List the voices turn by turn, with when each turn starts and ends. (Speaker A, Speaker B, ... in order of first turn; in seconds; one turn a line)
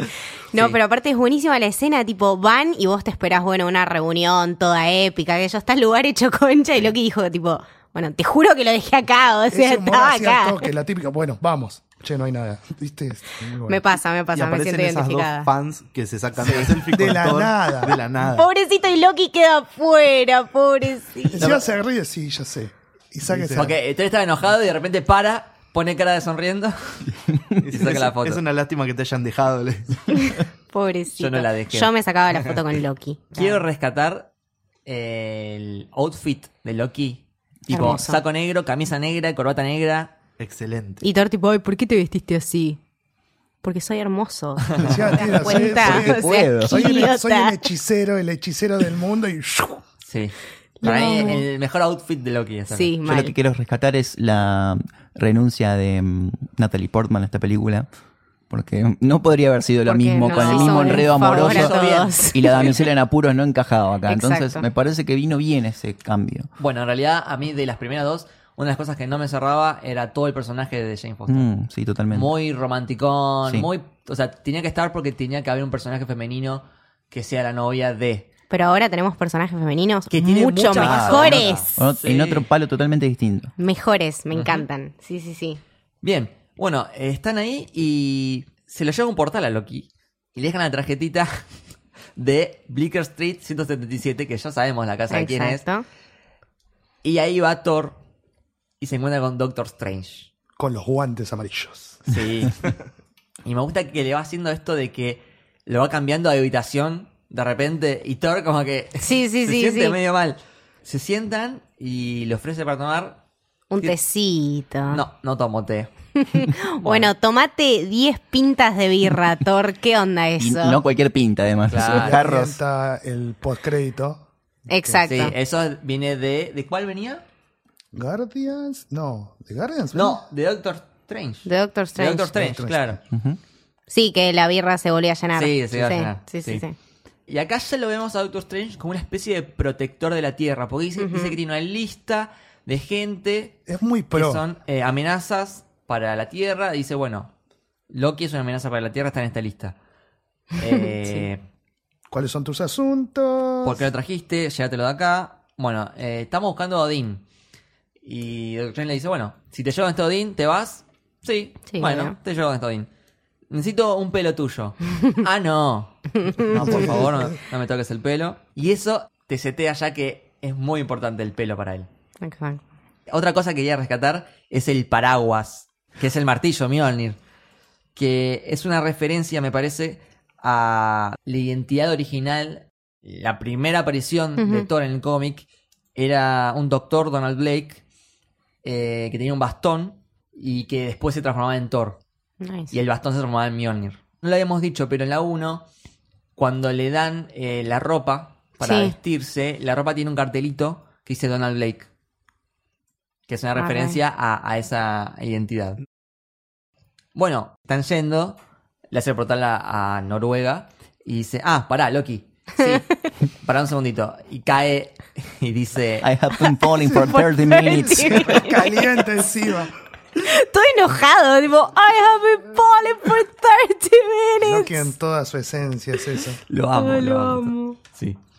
Speaker A: 0.5-10.6
Speaker B: 9.5-13.8
Speaker A: 13.7-15.5
Speaker C: 14.3-18.5
Speaker D: 16.4-16.8
Speaker B: 16.9-18.0
Speaker A: 18.2-21.5
Speaker B: 21.3-23.7
Speaker C: 23.3-23.7
Speaker D: 23.5-27.1
Speaker C: 27.6-30.4
Speaker D: 27.7-28.4
Speaker A: 30.3-33.6
Speaker D: 31.1-31.9
Speaker D: 33.3-34.3
Speaker D: 34.9-40.1
Speaker A: 37.7-38.2
Speaker C: 40.4-41.0
Speaker A: 41.0-42.8
Speaker A: 43.6-47.6
Speaker D: 44.7-45.3
Speaker B: 44.8-49.8
Speaker E: 45.5-47.1
Speaker D: 50.0-52.9
Speaker A: 50.8-51.4
Speaker A: 52.7-53.3
Speaker E: 53.0-57.9
Speaker E: 58.5-66.5
Speaker A: 59.9-62.5
Speaker D: 60.3-62.9
Speaker A: 64.1-64.6
Speaker D: 66.6-71.5
Speaker E: 71.3-72.3
Speaker D: 72.1-78.3
Speaker A: 78.5-81.8
Speaker D: 80.1-82.5
Speaker E: 80.7-83.5
Speaker A: 83.6-85.6
Speaker D: 84.3-84.7
Speaker D: 86.0-91.3
Speaker D: 92.2-95.6
Speaker A: 95.1-95.8
Speaker D: 97.0-98.0
Speaker D: 98.8-100.3
Speaker B: 100.6-102.1
Speaker D: 102.1-102.7
Speaker D: 103.4-113.2
Speaker A: 109.0-110.0
Speaker A: 113.7-115.0
Speaker D: 114.9-115.9
Speaker A: 116.2-120.8
Speaker D: 116.8-117.1
Speaker E: 120.4-122.6
Speaker D: 121.7-122.2
Speaker B: 122.0-124.2
Speaker A: 124.7-125.3
Speaker D: 125.1-127.2
Speaker B: 127.9-130.2
Speaker D: 129.9-133.0
Speaker A: 131.5-132.3
Speaker B: 132.3-133.0
Speaker E: 133.1-133.4
Speaker A: 133.9-136.8
Speaker D: 135.3-136.6
Speaker D: 137.3-147.3
Speaker A: 141.0-141.4
Speaker B: 143.7-144.4
Speaker D: 147.9-149.8
Speaker D: 150.6-151.4
Speaker A: 150.7-151.2
Speaker B: 152.1-153.9
Speaker D: 153.6-157.2
Speaker D: 158.0-162.9
Speaker A: 161.7-162.2
Speaker D: 163.5-171.9
Speaker A: 166.2-166.9
Speaker B: 166.4-167.4
Speaker A: 172.2-172.6
Speaker D: 173.1-177.2
Speaker D: 177.9-187.8
Speaker A: 184.4-184.7
Speaker D: 188.6-192.0
Speaker A: 192.4-192.8
Speaker D: 192.7-195.7
Speaker D: 196.4-201.9
Speaker A: 198.6-198.9
Speaker D: 203.3-205.8
Speaker A: 203.6-204.0
Speaker D: 207.1-208.4
Speaker D: 208.9-212.9
Speaker D: 213.4-216.1
Speaker E: 216.0-218.4
Speaker A: 216.8-218.8
Speaker B: 216.8-217.2
Speaker B: 217.9-219.7
Speaker A: 220.2-224.9
Speaker B: 224.4-226.4
Speaker D: 226.5-228.2
Speaker A: 226.7-227.8